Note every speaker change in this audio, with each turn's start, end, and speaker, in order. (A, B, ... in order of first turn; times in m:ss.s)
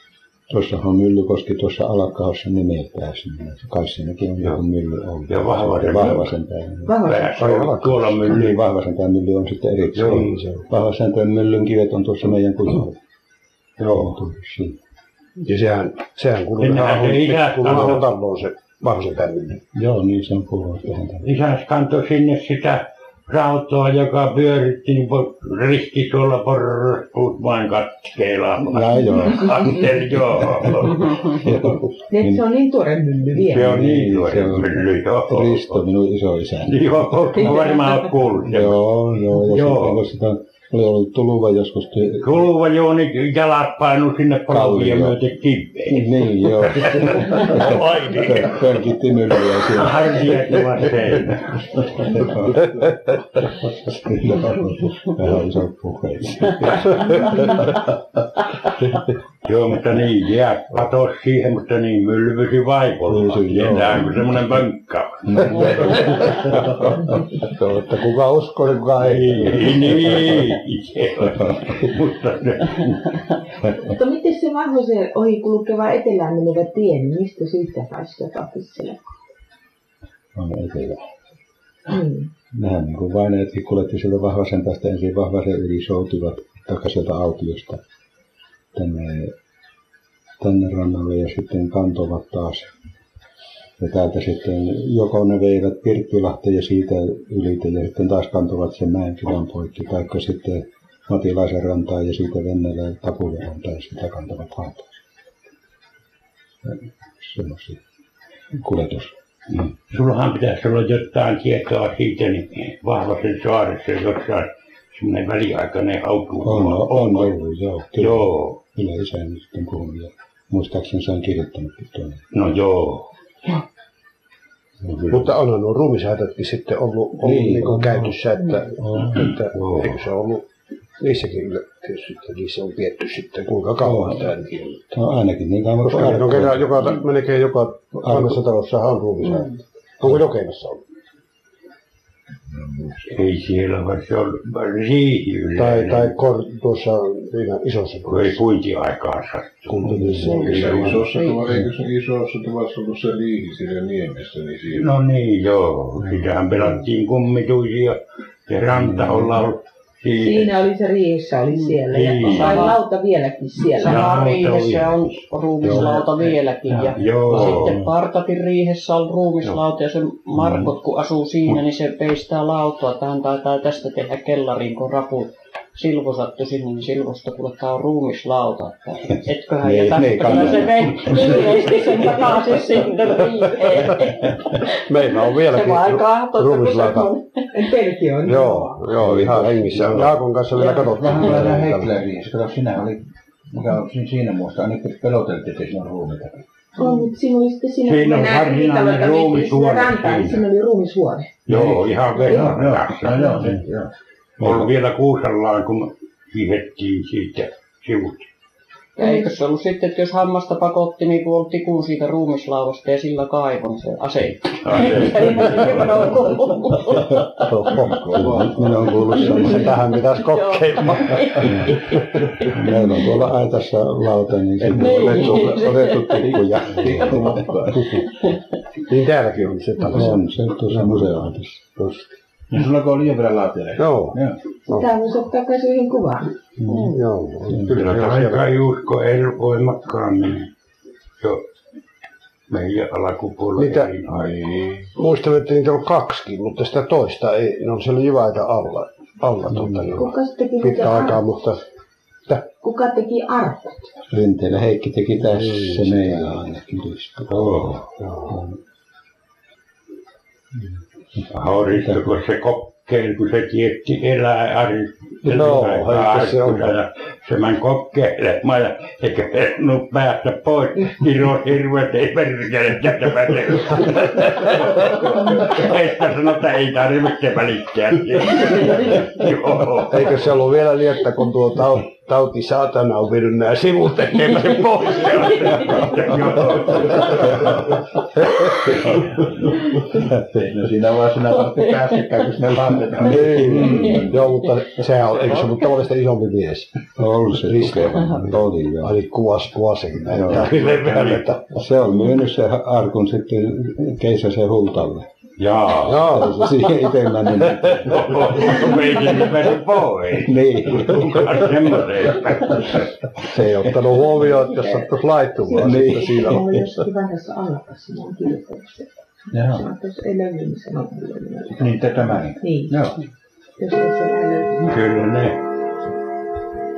0:00.5-0:13.0 A
0:05.3-0:06.4 B
0:06.9-0:07.4 C
0:07.0-0:08.6 B
0:07.4-0:08.1 D
0:10.0-0:10.4 B
0:10.1-0:10.6 D
0:13.8-0:14.8 A
0:13.8-0:14.1 B
0:15.4-0:19.6 D
0:16.6-0:18.0 B
0:19.7-0:21.3 A
0:21.2-0:31.5 B
0:28.7-0:32.4 A
0:32.1-0:33.8 C
0:33.4-0:35.9 B
0:33.4-0:37.4 A
0:36.7-0:40.0 B
0:38.4-0:42.4 A
0:42.2-0:48.8 B
0:44.5-0:45.2 A
0:45.9-0:50.9 A
0:49.4-0:52.2 B
0:51.8-0:58.2 A
0:58.8-0:59.1 A
0:59.4-1:06.5 B
1:03.1-1:04.4 A
1:05.3-1:07.2 A
1:07.4-1:10.3 D
1:09.0-1:13.2 B
1:13.7-1:19.0 C
1:20.4-1:21.1 A
1:21.9-1:22.3 C
1:22.5-1:27.8 A
1:28.7-1:29.3 A
1:30.4-1:32.7 A
1:33.8-1:45.0 A
1:46.6-1:47.8 A
1:48.5-1:49.7 A
1:49.8-1:57.4 B
1:56.4-2:02.2 A
1:58.0-1:58.6 B
2:02.3-2:03.1 B
2:04.8-2:05.2 A
2:05.1-2:10.5 D
2:07.2-2:08.2 A
2:08.8-2:09.8 A
2:11.0-2:14.8 D
2:13.8-2:14.3 A
2:14.9-2:16.9 A
2:15.8-2:20.8 D
2:18.0-2:18.4 A
2:19.2-2:19.6 E
2:22.5-2:23.0 F
2:23.1-2:26.2 B
2:25.6-2:28.4 D
2:28.1-2:31.1 B
2:29.7-2:31.0 D
2:29.9-2:30.4 A
2:30.2-2:31.6 E
2:30.3-2:35.0 F
2:34.7-2:40.6 B
2:36.0-2:36.3 A
2:38.7-2:39.4 A
2:40.1-2:44.2 C
2:41.5-2:42.8 E
2:41.9-2:42.7 B
2:43.8-3:07.5 E
2:43.8-2:46.0 B
2:46.7-2:47.6 G
2:47.0-2:47.8 B
2:47.4-2:47.9 A
2:50.4-2:50.6 A
2:59.6-3:01.8 A
3:04.7-3:07.1 D
3:07.5-3:08.9 C
3:08.2-3:12.0 D
3:08.9-3:10.2 A
3:10.6-3:10.9 E
3:10.6-3:16.4 G
3:16.8-3:21.3 C
3:17.8-3:20.4 B
3:21.5-3:23.5 B
3:21.5-3:23.9 G
3:22.2-3:22.5 C
3:24.4-3:24.7 A
3:24.4-3:28.3 B
3:29.0-3:38.0 E
3:29.0-3:29.3 C
3:34.6-3:36.1 B
3:37.1-3:39.7 A
3:38.0-3:38.8 F
3:38.3-3:38.6 G
3:39.0-3:43.1 E
3:39.3-3:41.9 D
3:41.4-3:41.8 A
3:42.4-3:48.0 A
3:44.6-3:45.5 G
3:44.8-3:48.1 E
3:46.1-3:47.9 G
3:48.9-3:51.2 D
3:49.9-3:51.6 A
3:51.8-3:52.1 D
3:52.5-3:54.4 G
3:53.8-3:54.9 D
3:54.7-3:56.3 C
3:56.6-3:57.0 A
3:56.7-3:57.0 E
3:56.8-3:58.5 D
3:57.5-3:57.8 A
3:57.7-4:00.5 B
4:02.5-4:04.4 B
4:03.6-4:03.9 D
4:04.1-4:04.9 F
4:05.0-4:11.6 D
4:09.5-4:10.0 A
4:10.0-4:11.2 C
4:12.6-4:13.9 C
4:14.1-4:18.6 A
4:15.2-4:16.4 D
4:17.3-4:17.8 B
4:17.7-4:18.4 D
4:21.2-4:22.1 A
4:21.3-4:40.3 B
4:25.2-4:26.8 D
4:39.8-4:47.6 D
4:44.9-4:47.7 B
4:48.7-4:49.3 G
4:50.0-4:50.3 A
4:50.1-4:54.2 G
4:51.3-4:52.3 E
4:53.0-5:01.8 D
4:53.0-4:54.1 A
4:53.7-4:54.5 E
4:57.0-4:59.0 A
5:00.1-5:00.5 A
5:00.3-5:01.4 B
5:01.5-5:05.1 A
5:05.4-5:06.2 B
5:05.8-5:06.9 D
5:06.0-5:08.4 A
5:07.6-5:12.9 B
5:10.2-5:11.8 A
5:13.2-5:16.4 D
5:14.5-5:14.8 C
5:15.4-5:22.8 C
5:15.6-5:16.6 A
5:19.3-5:19.7 G
5:21.5-5:23.0 G
5:23.6-5:24.8 C
5:24.6-5:25.4 B